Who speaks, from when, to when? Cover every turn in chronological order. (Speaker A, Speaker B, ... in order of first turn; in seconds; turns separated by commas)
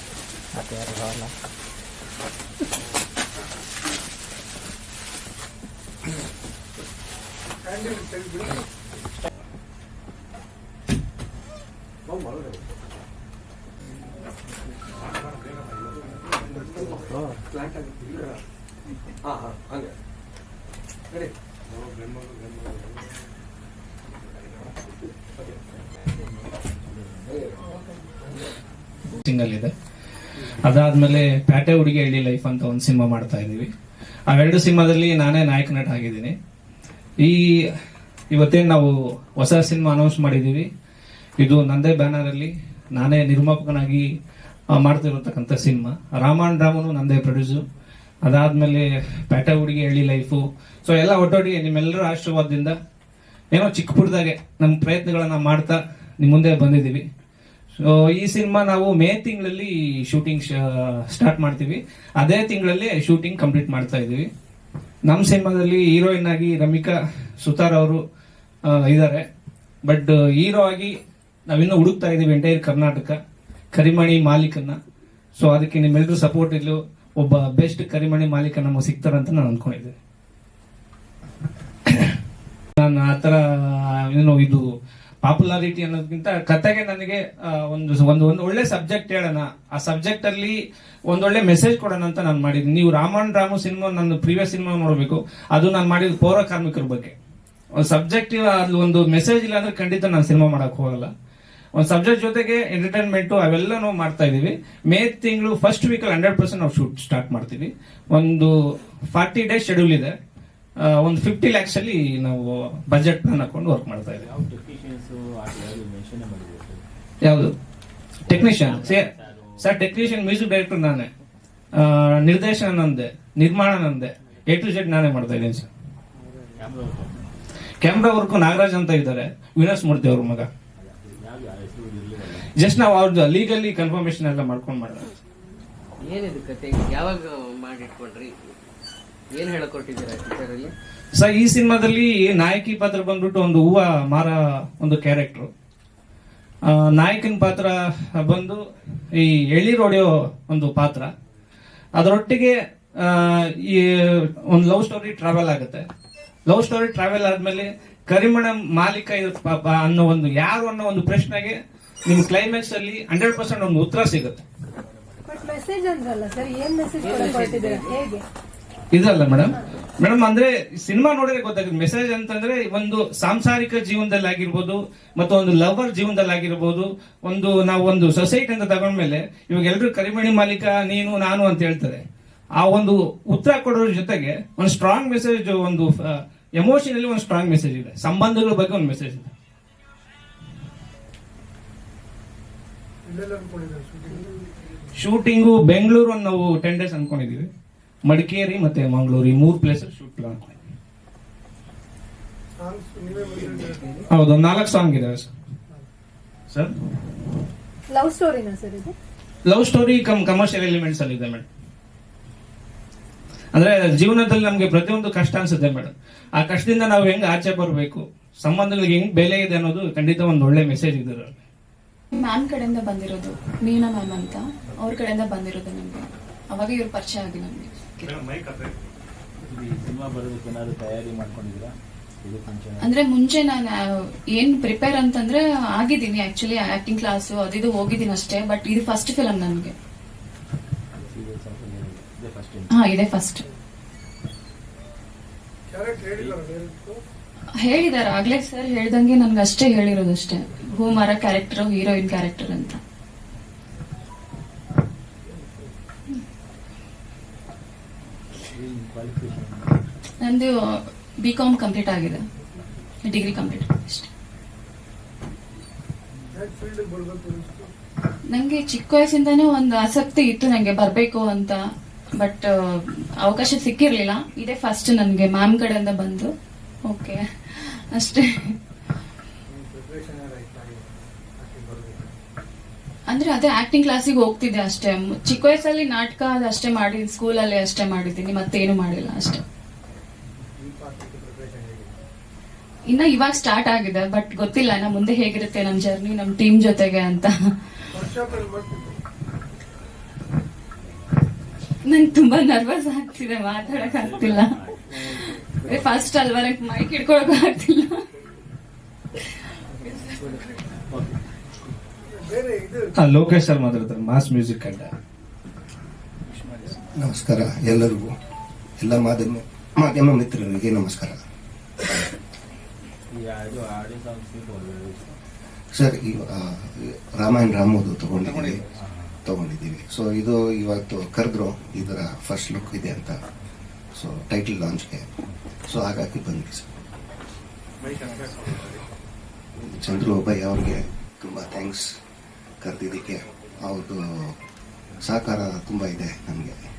Speaker A: 7.6-8.6, Speaker B: 26.3-27.5, Speaker C: 29.2-29.7, Speaker C: 30.6-33.7, Speaker C: 34.3-36.3, Speaker C: 37.2-37.7, Speaker C: 38.3-40.7, Speaker C: 41.4-44.1, Speaker C: 44.7-47.6, Speaker C: 48.2-52.8, Speaker C: 53.5-57.0, Speaker C: 57.8-64.2, Speaker C: 65.0-68.0, Speaker C: 68.7-69.2, Speaker C: 69.8-70.9, Speaker C: 71.5-73.2, Speaker C: 73.7-74.8, Speaker C: 75.4-79.9, Speaker C: 82.8-84.7, Speaker C: 85.2-90.6, Speaker C: 91.1-97.1, Speaker C: 97.8-101.1, Speaker C: 101.8-108.5, Speaker C: 109.1-110.1, Speaker C: 110.8-114.3, Speaker B: 114.0-116.8, Speaker C: 117.2-117.5, Speaker C: 118.2-121.1, Speaker B: 118.2-119.8, Speaker C: 121.8-125.7, Speaker B: 126.6-127.3, Speaker C: 127.8-130.5, Speaker B: 130.8-132.5, Speaker C: 132.6-135.1, Speaker D: 136.0-138.3, Speaker D: 139.3-140.7, Speaker C: 141.1-145.5, Speaker C: 146.7-148.6, Speaker C: 149.1-151.1, Speaker C: 151.9-155.8, Speaker C: 156.5-164.4, Speaker E: 165.2-168.2, Speaker D: 166.9-167.9, Speaker C: 168.9-182.0, Speaker C: 182.6-189.3, Speaker A: 193.0-194.3, Speaker C: 194.9-197.4, Speaker C: 198.0-200.5, Speaker A: 202.6-203.9, Speaker C: 204.1-205.3, Speaker E: 207.9-208.9, Speaker C: 209.4-211.4, Speaker C: 213.5-221.4, Speaker F: 222.1-228.1, Speaker C: 228.1-228.7, Speaker B: 229.4-232.9, Speaker F: 232.8-233.8, Speaker F: 234.3-239.7, Speaker B: 240.9-242.8, Speaker F: 242.7-243.4, Speaker A: 245.7-247.0, Speaker F: 247.6-252.8, Speaker B: 258.5-259.9, Speaker F: 260.2-260.5, Speaker F: 261.2-262.2, Speaker F: 263.0-264.1, Speaker A: 266.3-267.7, Speaker F: 268.3-271.6, Speaker F: 272.2-276.3, Speaker F: 276.9-278.5, Speaker A: 279.5-282.1, Speaker F: 283.1-289.4, Speaker A: 290.6-291.9, Speaker F: 292.9-297.3, Speaker A: 297.9-299.0, Speaker B: 300.7-301.7, Speaker F: 301.8-308.0, Speaker B: 303.6-306.1, Speaker B: 310.7-311.7, Speaker A: 312.1-312.9, Speaker C: 313.0-314.9, Speaker B: 316.3-316.9, Speaker G: 316.9-318.1, Speaker G: 318.8-321.2, Speaker B: 323.1-325.2, Speaker G: 325.7-328.6, Speaker C: 328.2-328.6, Speaker B: 328.7-329.2, Speaker G: 329.2-333.2, Speaker G: 333.9-335.1, Speaker G: 335.6-336.7, Speaker G: 339.6-341.9, Speaker G: 342.6-344.3, Speaker G: 345.0-346.6